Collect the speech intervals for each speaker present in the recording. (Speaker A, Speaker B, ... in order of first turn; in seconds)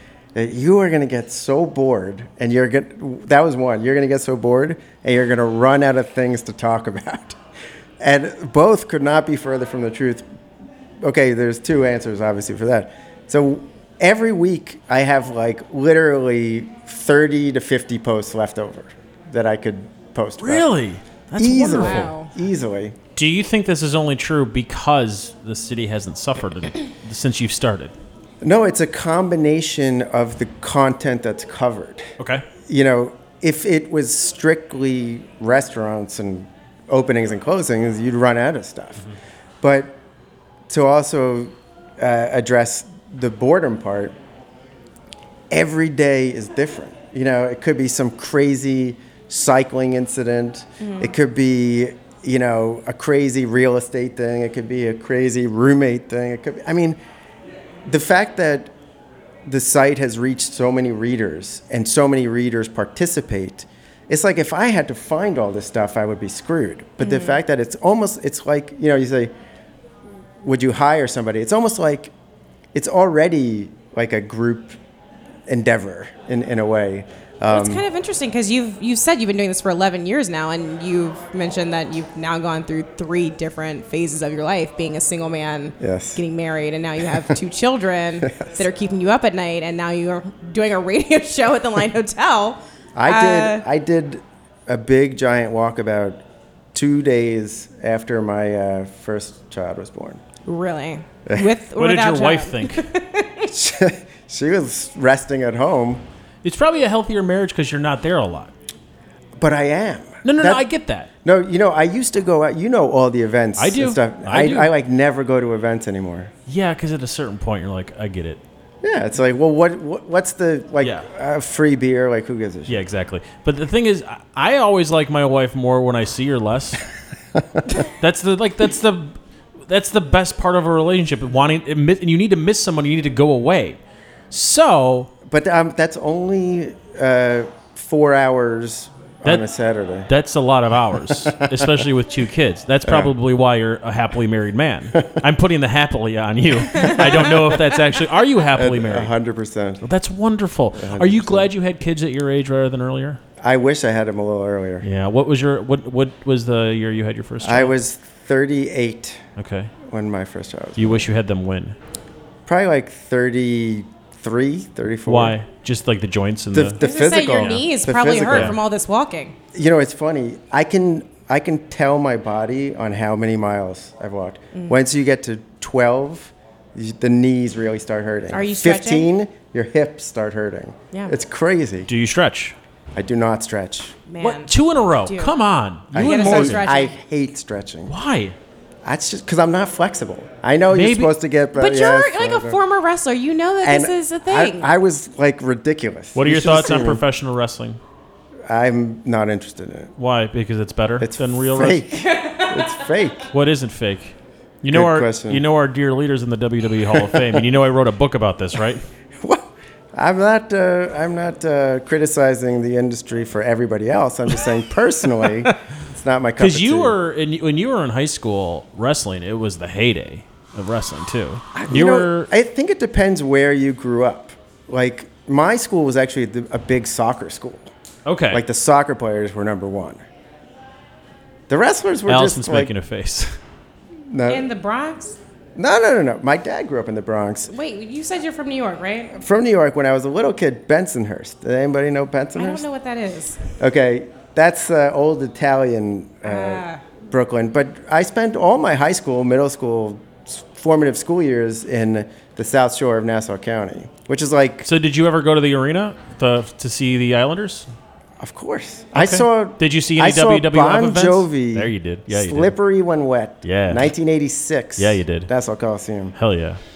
Speaker A: 0.3-7.4, 8.0-10.2, 11.0-20.6, 21.4-22.9, 28.4-32.1, 32.6-39.1, 39.6-40.0, 40.7-44.1, 45.5-57.0, 57.8-58.7, 59.4-69.3, 70.4-72.1, 72.7-74.8, 75.5-77.8, 85.8-86.2, 92.9-96.2, 96.7-100.2, 103.4-106.0, 109.4-110.6, 111.2-116.3, 118.8-122.8, 135.2-140.1, 148.6-149.8, 150.8-151.5, 153.4-154.9, 157.4-159.2, 159.8-161.1, 162.4-165.3, 166.5-168.5, 169.5-181.9, 182.9-184.0, 185.9-187.9, 188.8-192.6, 193.6-197.0, 198.5-199.9, 201.0-203.3, 204.7-205.4, 209.2-216.9, 221.5-227.7, 228.3-230.0, 231.5-232.7, 234.1-234.4, 235.6-237.5, 239.1-242.6, 243.6-254.7, 258.2-266.1
Speaker B: 20.4-22.1, 23.1-27.9, 32.2-32.5, 101.8-102.9, 106.4-108.5, 110.2-111.1, 113.6-114.7, 116.5-118.4, 120.8-121.1, 122.7-126.8, 127.8-133.8, 134.3-135.1, 140.1-149.1, 149.8-153.2, 154.8-157.7, 159.4-159.7, 160.8-161.8, 165.1-166.8, 167.3-167.6, 168.2-168.6, 181.9-182.6, 184.2-186.7, 187.9-188.4, 190.7-191.1, 196.1-197.8, 200.0-201.8, 203.3-208.8, 216.4-222.3, 228.1-228.4, 232.1-233.3, 254.6-257.7, 258.9-262.5, 263.4-263.9, 264.8-265.3, 266.1-266.6
Speaker C: 21.7-22.3, 50.8-51.1, 67.0-67.4, 77.5-93.6, 100.5-103.5, 166.8-169.4, 178.3-179.1, 184.1-184.5, 185.0-185.3, 185.9-186.9, 191.6-194.7, 202.2-202.6, 234.3-235.2, 237.5-239.2, 242.4-243.4, 246.2-246.8